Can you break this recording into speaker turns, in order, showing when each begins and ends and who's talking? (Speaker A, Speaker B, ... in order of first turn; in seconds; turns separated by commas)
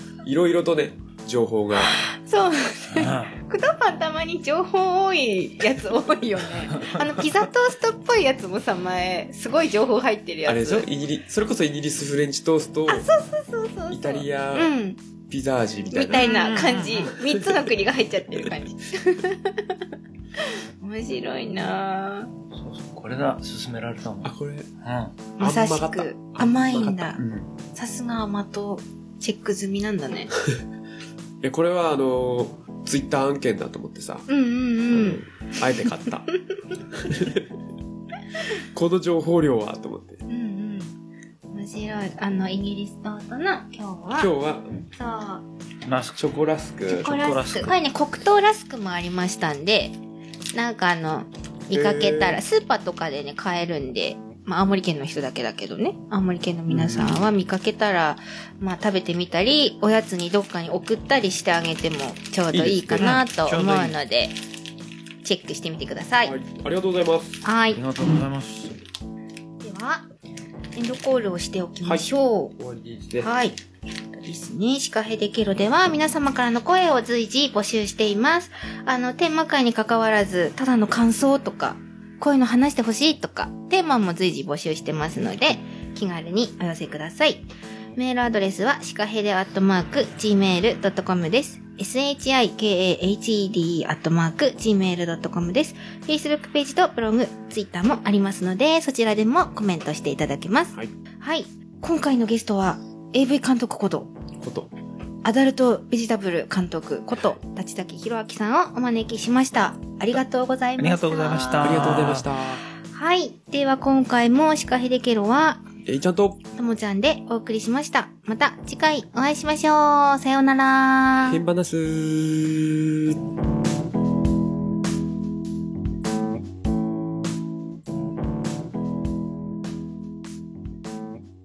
Speaker A: 0.2-2.0, Speaker B: 1.8-10.9, Speaker C: 2.9-3.3, Speaker C: 6.7-7.3, Speaker A: 10.4-13.1, Speaker B: 12.9-15.0, Speaker A: 13.9-14.7, Speaker A: 15.3-16.2, Speaker B: 15.9-19.8, Speaker C: 16.1-17.1, Speaker B: 20.3-22.3, Speaker C: 22.5-24.3, Speaker A: 24.2-24.7, Speaker C: 24.8-25.1, Speaker A: 25.4-27.2, Speaker B: 25.4-27.2, Speaker C: 27.2-27.4, Speaker B: 27.7-30.3, Speaker A: 31.4-34.3, Speaker B: 34.3-35.8, Speaker A: 34.9-36.3, Speaker A: 36.9-37.5, Speaker A: 38.6-40.2, Speaker B: 40.3-40.9, Speaker B: 41.5-44.3, Speaker A: 44.1-44.8, Speaker B: 44.9-45.4, Speaker C: 45.9-46.2, Speaker A: 46.2-47.3, Speaker B: 46.9-50.0, Speaker C: 47.0-47.7, Speaker B: 50.5-64.3, Speaker A: 51.7-52.4, Speaker A: 56.7-57.3, Speaker A: 62.5-63.1, Speaker C: 63.0-64.0, Speaker B: 65.2-66.3, Speaker A: 66.2-67.4, Speaker B: 67.4-67.8, Speaker C: 67.7-68.8, Speaker B: 69.6-70.1, Speaker B: 70.7-72.5, Speaker A: 71.8-73.3, Speaker B: 73.2-73.6, Speaker B: 74.1-104.1, Speaker A: 104.4-104.7, Speaker B: 105.2-112.1, Speaker C: 110.8-112.3, Speaker A: 111.6-112.6, Speaker B: 112.8-115.7, Speaker A: 115.8-116.4, Speaker B: 116.5-121.4, Speaker A: 121.2-123.2